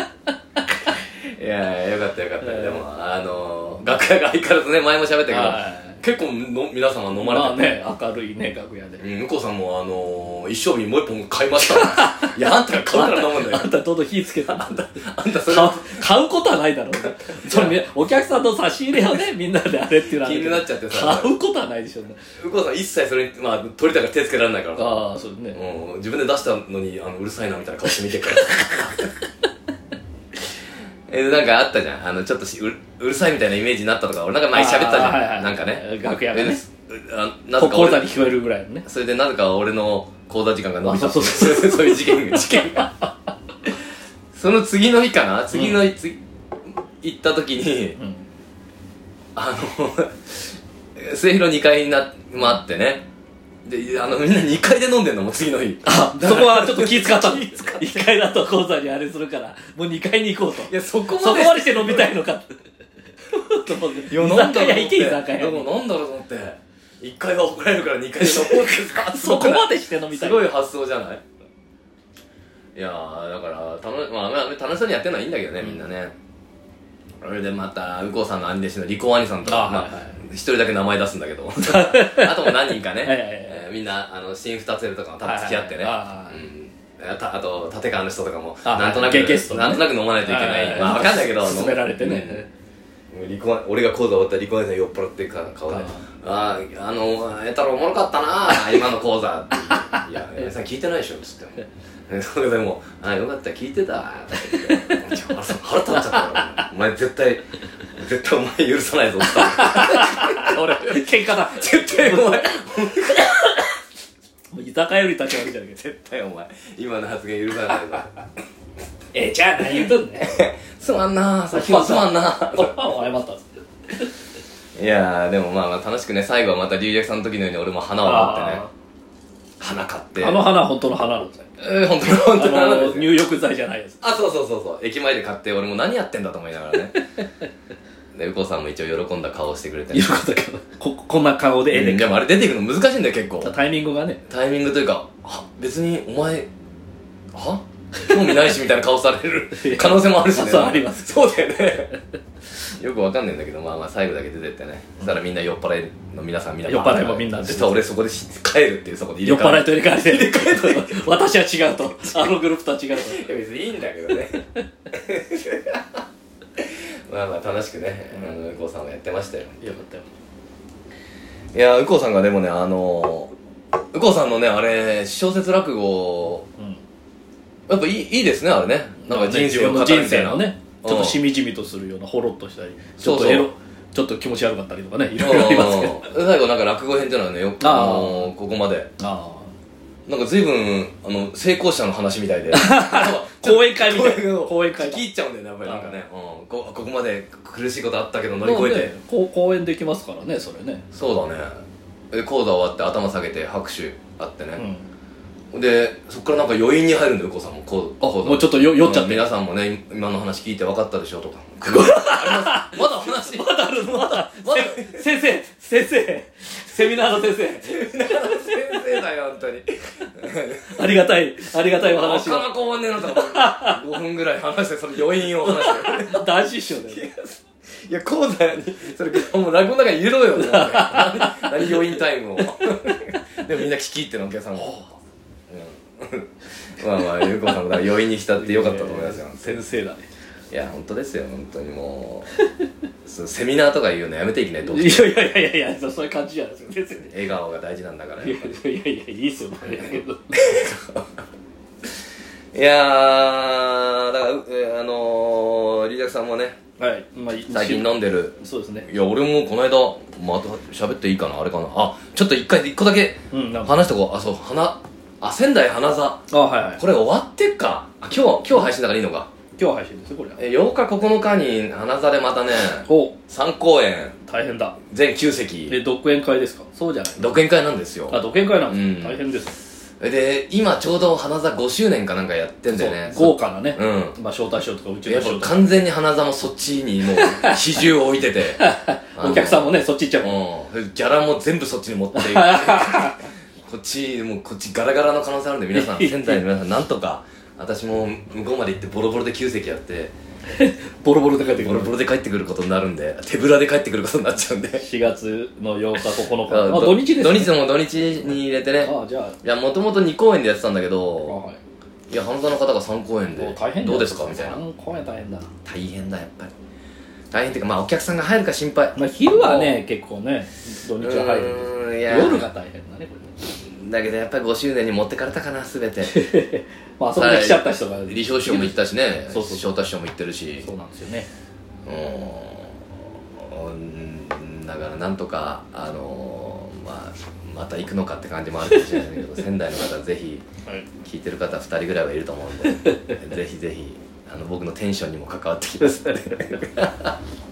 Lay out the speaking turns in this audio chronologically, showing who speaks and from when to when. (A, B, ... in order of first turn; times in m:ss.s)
0:01.0-0:07.7 A
0:02.4-0:02.8 B
0:05.3-0:06.0 B
0:07.2-0:09.0 B
0:09.0-0:13.7 A
0:11.6-0:22.2 B
0:14.4-0:16.1 A
0:17.2-0:17.8 A
0:20.2-0:21.3 A
0:22.4-0:29.1 A
0:24.8-0:25.6 B
0:28.1-0:28.7 B
0:31.1-0:38.1 A
0:34.5-0:36.6 B
0:37.6-0:38.8 B
0:38.9-0:43.0 A
0:40.8-0:43.1 B
0:44.3-0:46.2 A
0:45.5-0:45.8 B
0:47.0-0:48.0 A
0:48.0-0:48.2 B
0:49.4-0:53.1 A
0:53.6-0:58.1 A
0:55.8-1:02.6 B
1:00.7-1:02.1 A
1:03.2-1:05.7 B
1:03.7-1:11.2 A
1:08.2-1:10.5 B
1:12.8-1:16.1 A
1:17.2-1:32.4 A
1:19.4-1:20.2 B
1:21.6-1:23.6 B
1:25.2-1:26.4 B
1:28.6-1:32.5 B
1:33.1-1:53.6 A
1:35.7-1:36.0 B
1:46.1-1:46.6 B
1:49.2-1:52.5 B
1:54.5-1:55.8 B
1:55.7-1:58.1 A
1:59.1-2:00.3 B
1:59.7-2:02.9 A
2:01.5-2:03.4 B
2:04.8-2:08.6 A
2:08.0-2:08.7 B
2:09.6-2:10.5 A
2:10.2-2:11.4 B
2:11.6-2:13.1 A
2:12.2-2:14.0 B
2:14.0-2:17.0 A
2:18.1-2:20.1 A
2:19.9-2:22.2 B
2:21.7-2:23.5 A
2:23.4-2:24.2 B
2:24.3-2:26.5 A
2:27.3-2:32.0 A
2:29.5-2:31.4 B
2:32.8-2:41.1 A
2:36.6-2:37.9 B
2:39.2-2:43.3 B
2:42.0-2:42.3 A
2:43.0-2:46.0 A
2:46.6-2:49.7 A
2:48.1-2:48.4 B
2:49.6-2:50.1 B
2:51.5-2:53.3 A
2:53.9-2:56.5 A
2:57.7-3:01.2 A
2:59.0-3:06.1 B
3:03.0-3:03.5 A
3:05.1-3:08.9 A
3:07.6-3:08.3 B
3:09.0-3:09.5 B
3:10.1-3:18.9 A
3:12.5-3:15.0 B
3:15.6-3:16.0 B
3:18.4-3:20.9 B
3:20.9-3:21.5 A
3:22.1-3:24.6 A
3:24.6-3:24.9 B
3:25.5-3:35.0 A
3:28.0-3:29.3 B
3:31.6-3:38.6 B
3:36.9-3:41.0 A
3:40.6-3:43.8 B
3:41.6-3:54.8 A
3:45.2-3:47.1 B
3:50.3-3:52.0 B
3:54.6-3:54.8 B
3:55.5-3:59.6 A
3:57.2-3:57.5 B
3:58.4-4:00.1 B
4:00.5-4:02.3 A
4:03.0-4:05.2 A
4:04.6-4:07.2 B
4:07.1-4:08.6 A
4:08.2-4:10.4 B
4:10.3-4:11.1 A
4:12.5-4:16.6 A
4:16.8-4:18.9 B
4:17.5-4:26.2 A
4:23.3-4:23.8 B
4:26.3-4:26.8 B
4:26.8-4:29.3 A
4:29.6-4:30.4 B
4:30.4-4:34.2 A
4:32.8-4:33.2 B
4:34.3-4:34.8 B
4:34.9-4:35.8 A
4:35.7-4:37.3 B
4:37.2-4:39.3 A
4:38.1-4:39.6 B
4:40.0-4:44.2 A
4:42.7-4:45.7 B
4:45.1-4:48.6 A
4:47.1-4:47.8 B
4:48.6-4:50.4 B
4:49.2-5:00.1 A
4:52.1-4:53.2 B
4:55.7-4:56.4 B
5:00.5-5:02.0 B
5:01.5-5:04.9 A
5:04.8-5:07.6 B
5:06.0-5:11.4 A
5:08.3-5:09.4 B
5:11.2-5:11.6 B
5:12.1-5:14.6 A
5:13.4-5:15.5 B
5:15.6-5:16.5 A
5:17.3-5:19.7 A
5:19.0-5:23.3 B
5:21.0-5:22.5 A
5:23.6-5:26.2 A
5:26.0-5:28.8 B
5:27.1-5:30.7 A
5:29.3-5:29.7 B
5:30.6-5:31.3 B
5:31.8-5:32.8 A
5:33.4-5:40.4 A
5:41.0-5:47.2 A